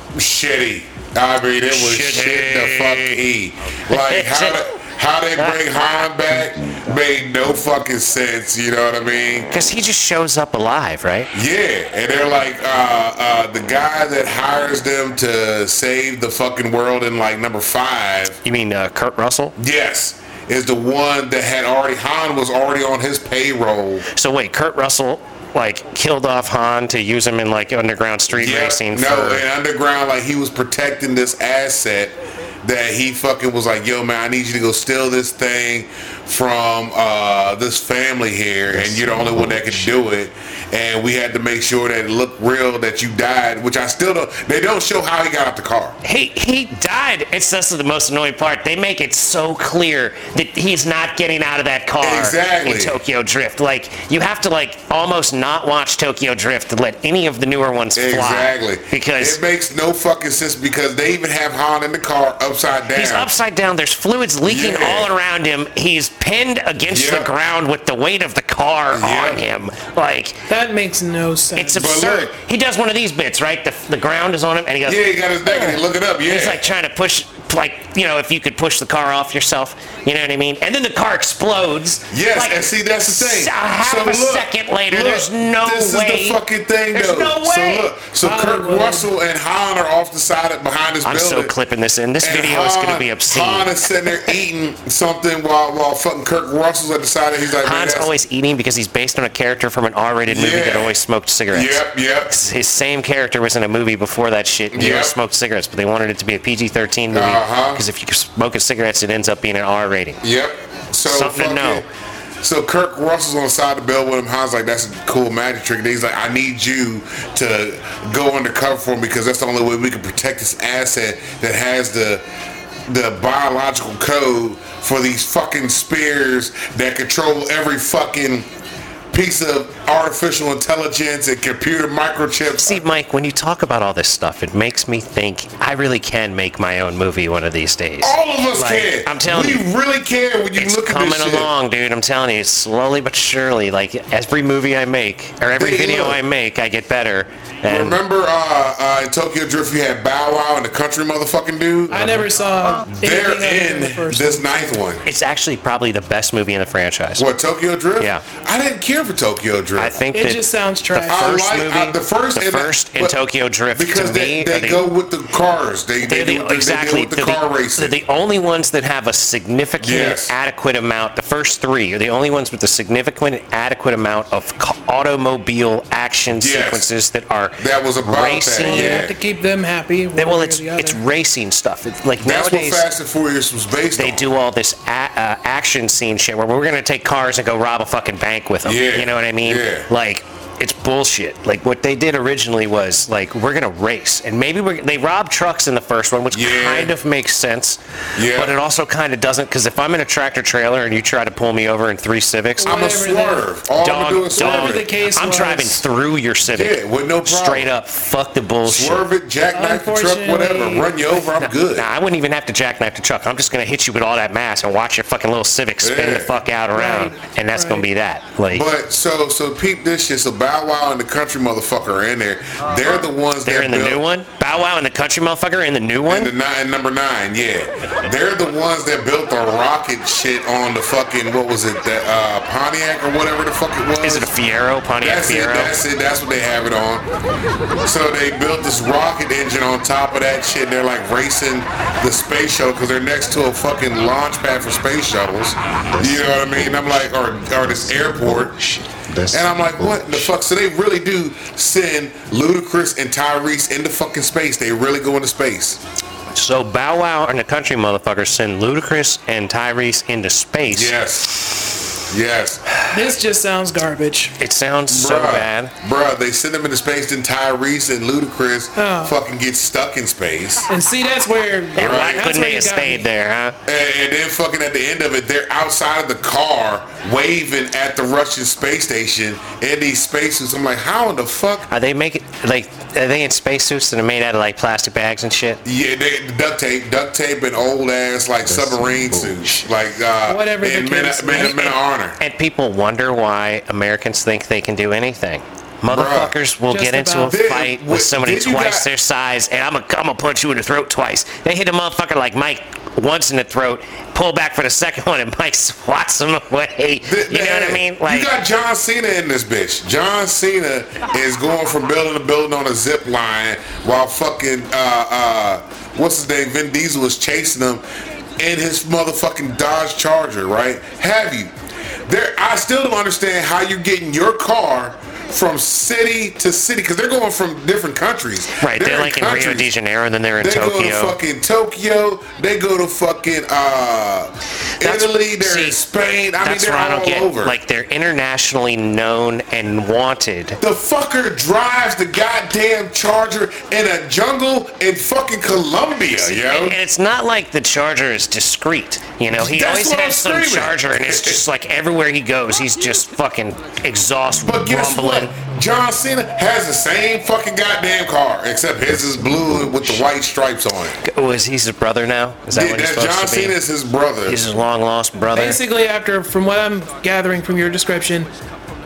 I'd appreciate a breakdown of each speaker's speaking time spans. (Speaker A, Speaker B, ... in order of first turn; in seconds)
Speaker A: 0.1-9.5, 11.3-18.4, 19.6-24.1, 28.3-46.0, 52.0-53.0, 58.0-63.3, 64.5-65.1, 66.8-67.3, 68.9-69.4, 71.8-72.3, 74.8-76.6, 82.1-91.5, 92.2-98.1, 100.3-101.0, 101.5-102.3, 104.7-105.1, 107.1-107.8, 110.2-111.9, 112.4-122.2, 122.9-128.5, 129.1-132.8, 138.0-141.5, 145.6-146.2, 147.7-152.2, 152.9-155.0, 157.2-160.0, 160.9-163.2, 163.7-167.9, 169.8-170.3, 176.3-176.9, 177.6-179.1, 182.2-184.3, 188.6-189.9, 196.3-196.9, 198.2-198.6, 202.7-204.9, 206.5-207.7, 208.7-211.9, 215.8-216.3, 218.5-224.0, 226.1-234.3, 235.0-237.1, 237.8-255.8, 260.7-262.6, 264.9-270.7, 271.8-272.3, 273.7-281.7, 285.6-292.2, 295.9-296.4, 297.2-298.9, 307.1-317.8, 318.4-321.5, 322.1-329.7, 330.4-337.6, 340.6-346.8, 349.3-351.4, 354.4-361.0, 362.5-364.5
Speaker B: 1.7-3.2, 3.9-4.6, 5.4-5.6, 9.5-11.3, 18.4-19.6, 24.1-29.4, 38.8-39.9, 46.0-59.4, 62.9-70.4, 71.5-86.4, 86.9-87.9, 91.0-94.2, 97.6-110.2, 111.0-111.8, 132.6-139.7, 140.6-148.0, 152.0-152.2, 155.1-157.3, 159.8-160.4, 160.9-164.9, 166.0-179.0, 180.2-182.9, 183.9-202.8, 203.8-209.1, 211.4-218.7, 223.4-226.3, 234.0-235.7, 256.3-260.9, 264.4-265.7, 271.8-273.6, 281.7-285.6, 292.2-308.3, 328.5-331.2, 334.8-335.8, 336.4-340.6, 346.1-355.4, 361.0-363.6, 364.3-365.6
Speaker C: 70.5-71.9, 88.2-89.1, 151.9-154.7, 160.1-161.4, 178.6-181.0, 202.6-203.5, 204.3-205.8, 209.5-210.9, 216.7-217.8, 262.9-264.4, 268.8-269.1, 270.7-273.1, 290.3-291.7, 296.7-297.4, 365.3-368.3